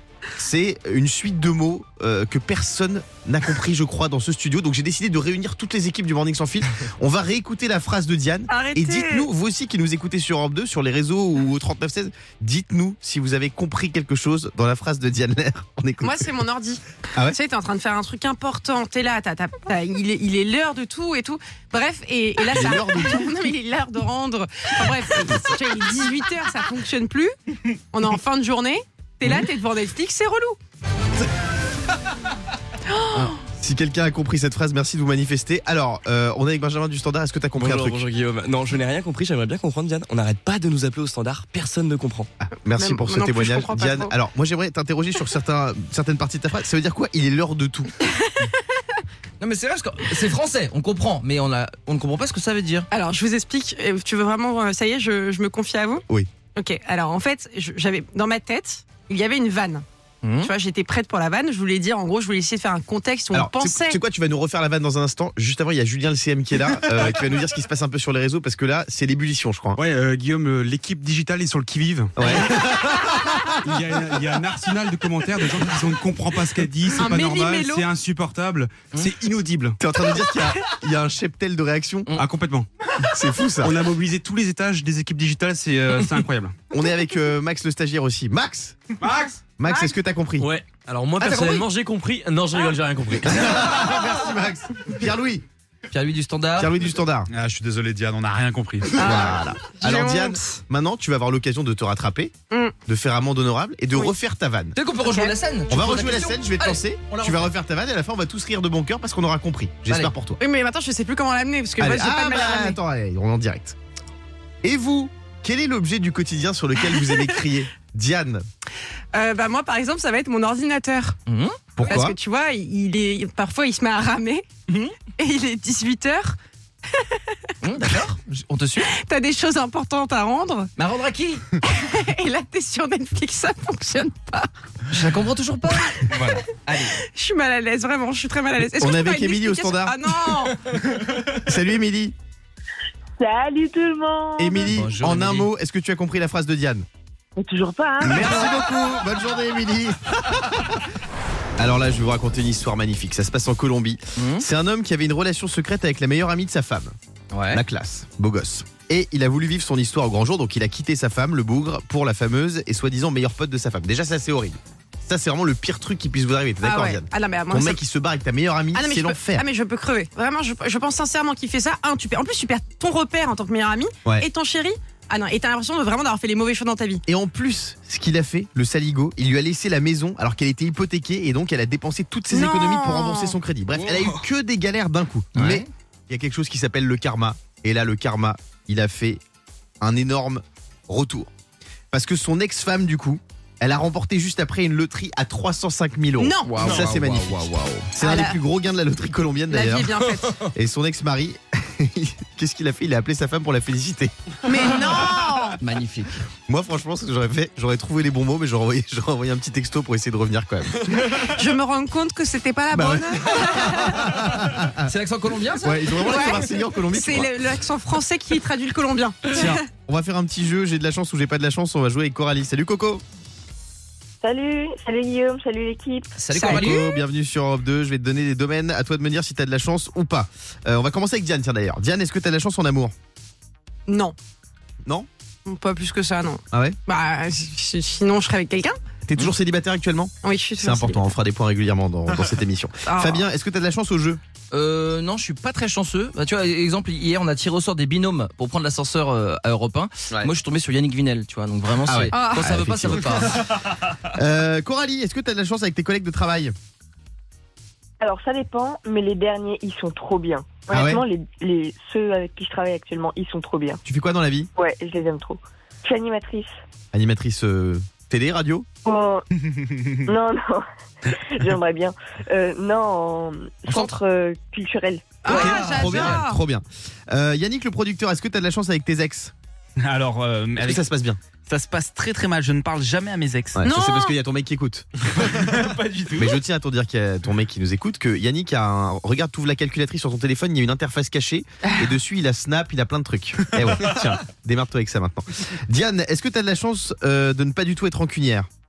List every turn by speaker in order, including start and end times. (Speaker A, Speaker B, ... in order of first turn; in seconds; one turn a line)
Speaker A: 0.3-16.3
Speaker B: 8.5-9.3
Speaker B: 16.0-30.6
Speaker A: 22.5-23.3
Speaker B: 32.9-33.3
Speaker A: 33.5-38.0
Speaker C: 37.6-42.3
Speaker A: 42.4-47.9
Speaker B: 42.8-44.1
Speaker B: 48.2-48.5
Speaker D: 49.4-52.9
Speaker B: 52.9-56.0
Speaker B: 56.5-59.9
Speaker D: 60.2-60.5
Speaker B: 60.4-64.0
Speaker A: 63.3-69.8
Speaker E: 69.8-72.4
Speaker A: 72.2-74.1
Speaker E: 73.6-79.8
Speaker B: 77.0-77.9
Speaker A: 79.8-82.1
Speaker E: 82.2-82.7
Speaker A: 83.1-83.8
Speaker E: 83.6-86.5
Speaker A: 86.7-88.9
Speaker E: 89.0-89.4
Speaker A: 89.6-90.5
Speaker B: 89.7-90.0
Speaker C: 90.4-93.7
Speaker A: 93.2-95.5
Speaker D: 95.9-96.7
Speaker A: 96.6-97.3
Speaker E: 97.3-99.0
Speaker A: 99.0-102.3
Speaker B: 99.0-100.6
Speaker A: 102.9-104.8
Speaker D: 104.8-107.5
Speaker B: 105.0-105.3
Speaker A: 105.7-110.4
Speaker D: 109.9-110.1
Speaker B: 110.4-112.8
Speaker A: 111.8-113.8
Speaker A: 114.6-118.4
Speaker B: 119.1-121.2
Speaker D: 121.3-122.0
Speaker A: 121.8-122.2
Speaker B: 121.8-124.5
Speaker B: 125.0-126.4
Speaker B: 126.9-127.4
Speaker D: 127.6-128.9
Speaker B: 128.8-130.7
Speaker D: 130.8-131.5
Speaker B: 131.6-134.5
Speaker D: 134.9-137.0
Speaker B: 137.0-140.6
Speaker A: 138.7-142.2
Speaker F: 143.2-144.7
Speaker A: 144.4-146.8
Speaker D: 144.7-145.5
Speaker F: 147.4-148.5
Speaker A: 148.0-150.8
Speaker A: 151.6-156.9
Speaker D: 154.2-154.4
Speaker D: 157.3-157.6
Speaker A: 157.5-169.5
Speaker B: 166.6-167.8
Speaker B: 168.7-177.0
Speaker A: 177.1-189.2
Speaker B: 182.3-183.4
Speaker D: 185.4-185.7
Speaker A: 189.8-191.3
Speaker A: 191.9-200.0
Speaker B: 196.2-196.7
Speaker D: 196.5-197.6
Speaker B: 197.9-198.4
Speaker B: 199.5-200.4
Speaker A: 200.5-204.1
Speaker B: 204.5-205.6
Speaker D: 205.6-206.1
Speaker A: 206.5-211.0
Speaker B: 211.0-214.1
Speaker A: 212.7-214.9
Speaker D: 214.8-216.4
Speaker A: 215.6-217.4
Speaker B: 215.9-219.6
Speaker A: 219.3-223.0
Speaker F: 224.2-226.1
Speaker D: 226.2-226.8
Speaker B: 226.3-227.0
Speaker A: 226.4-232.9
Speaker B: 233.9-234.2
Speaker B: 235.4-238.8
Speaker A: 236.5-236.8
Speaker A: 239.1-244.2
Speaker B: 240.2-241.1
Speaker B: 242.9-243.2
Speaker D: 244.5-253.4
Speaker A: 251.8-256.5
Speaker B: 252.1-252.4
Speaker F: 258.0-263.8
Speaker A: 260.7-261.1
Speaker A: 263.9-264.5
Speaker F: 264.6-266.5
Speaker A: 266.9-268.7
Speaker F: 268.9-269.3
Speaker F: 270.1-275.4
Speaker A: 273.7-274.0
Speaker B: 275.2-276.4
Speaker A: 275.2-279.3
Speaker G: 275.5-275.8
Speaker G: 279.8-280.9
Speaker A: 280.6-281.2
Speaker G: 281.5-283.6
Speaker A: 283.6-285.3
Speaker B: 283.6-284.2
Speaker G: 285.2-286.4
Speaker A: 286.2-298.5